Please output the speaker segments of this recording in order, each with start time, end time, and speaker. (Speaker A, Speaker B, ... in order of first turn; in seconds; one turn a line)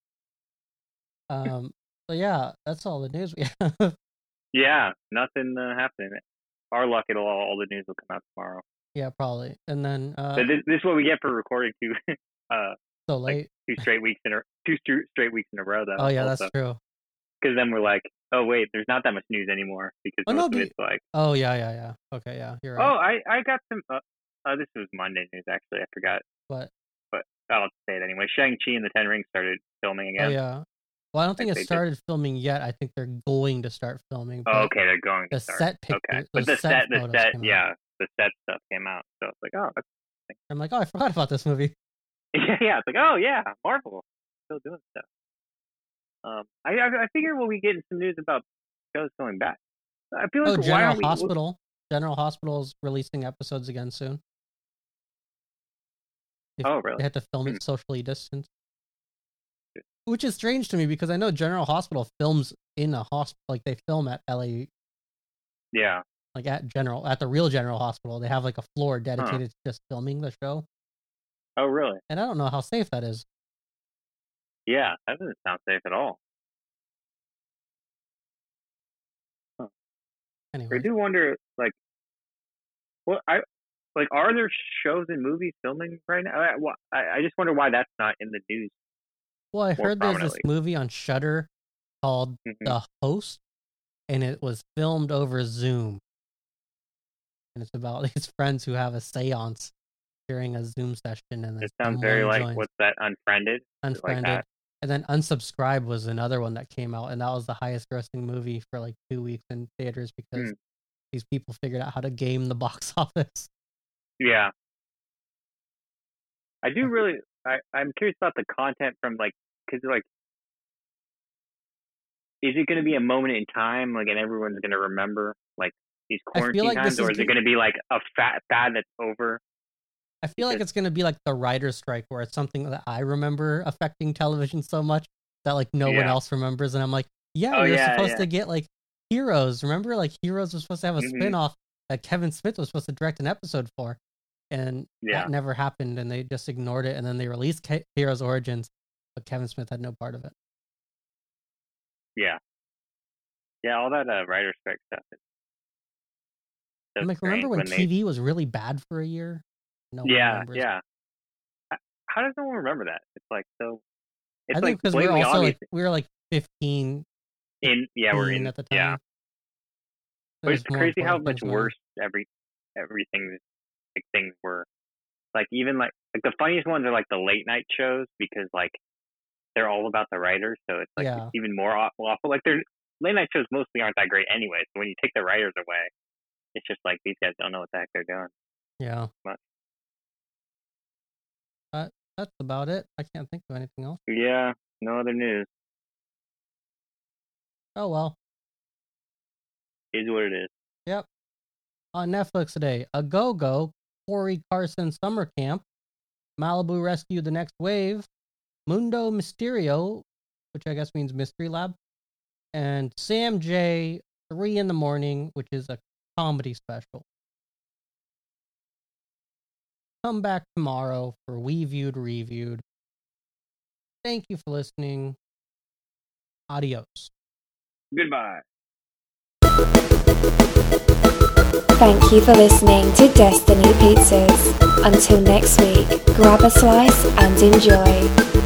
Speaker A: 1.3-4.0
Speaker B: 4.5-6.2
Speaker B: 6.7-8.6
Speaker A: 8.9-10.5
Speaker B: 10.3-12.0
Speaker B: 12.5-12.8
Speaker A: 13.1-13.8
Speaker B: 13.3-16.5
Speaker A: 16.0-16.8
Speaker B: 17.4-21.0
Speaker A: 20.3-22.9
Speaker B: 22.8-26.2
Speaker B: 27.1-30.4
Speaker A: 30.2-30.6
Speaker A: 31.1-34.7
Speaker B: 31.4-31.8
Speaker B: 34.5-40.4
Speaker A: 35.3-37.6
Speaker A: 40.5-41.7
Speaker B: 42.4-45.1
Speaker B: 46.2-49.6
Speaker B: 50.1-51.3
Speaker A: 50.5-54.2
Speaker A: 56.6-58.5
Speaker B: 56.6-57.6
Speaker A: 60.1-64.7
Speaker B: 65.7-66.0
Speaker A: 66.3-70.7
Speaker B: 71.6-72.0
Speaker A: 72.1-73.2
Speaker B: 74.7-76.2
Speaker A: 80.5-80.9
Speaker B: 80.7-81.8
Speaker B: 83.1-83.4
Speaker B: 84.0-88.8
Speaker A: 89.5-91.5
Speaker B: 89.8-90.5
Speaker A: 92.0-93.4
Speaker B: 92.5-92.8
Speaker A: 94.1-96.0
Speaker A: 97.5-99.7
Speaker A: 100.3-102.7
Speaker B: 101.6-104.4
Speaker A: 103.8-110.5
Speaker A: 111.1-113.5
Speaker B: 114.2-114.5
Speaker B: 116.6-120.0
Speaker B: 122.4-129.4
Speaker A: 126.3-127.4
Speaker A: 130.2-144.0
Speaker B: 130.4-130.6
Speaker B: 135.8-136.2
Speaker B: 137.5-138.3
Speaker B: 141.0-141.4
Speaker A: 144.5-150.3
Speaker B: 145.0-145.3
Speaker B: 153.6-155.2
Speaker B: 156.9-157.9
Speaker A: 157.0-160.7
Speaker B: 160.0-160.8
Speaker B: 161.7-163.8
Speaker B: 164.5-165.6
Speaker A: 164.5-167.1
Speaker B: 167.6-169.0
Speaker A: 167.7-169.0
Speaker A: 170.4-171.7
Speaker B: 170.5-173.4
Speaker B: 173.9-174.7
Speaker B: 175.3-178.8
Speaker B: 179.6-185.9
Speaker A: 181.0-181.3
Speaker B: 186.5-188.3
Speaker A: 188.8-189.1
Speaker A: 191.7-194.0
Speaker B: 194.1-195.5
Speaker A: 197.8-198.2
Speaker B: 199.9-200.5
Speaker A: 201.9-205.7
Speaker A: 206.4-208.1
Speaker A: 208.7-211.8
Speaker A: 212.5-217.1
Speaker A: 220.0-222.6
Speaker A: 224.0-225.2
Speaker A: 226.5-227.1
Speaker B: 227.9-228.4
Speaker C: 231.8-238.2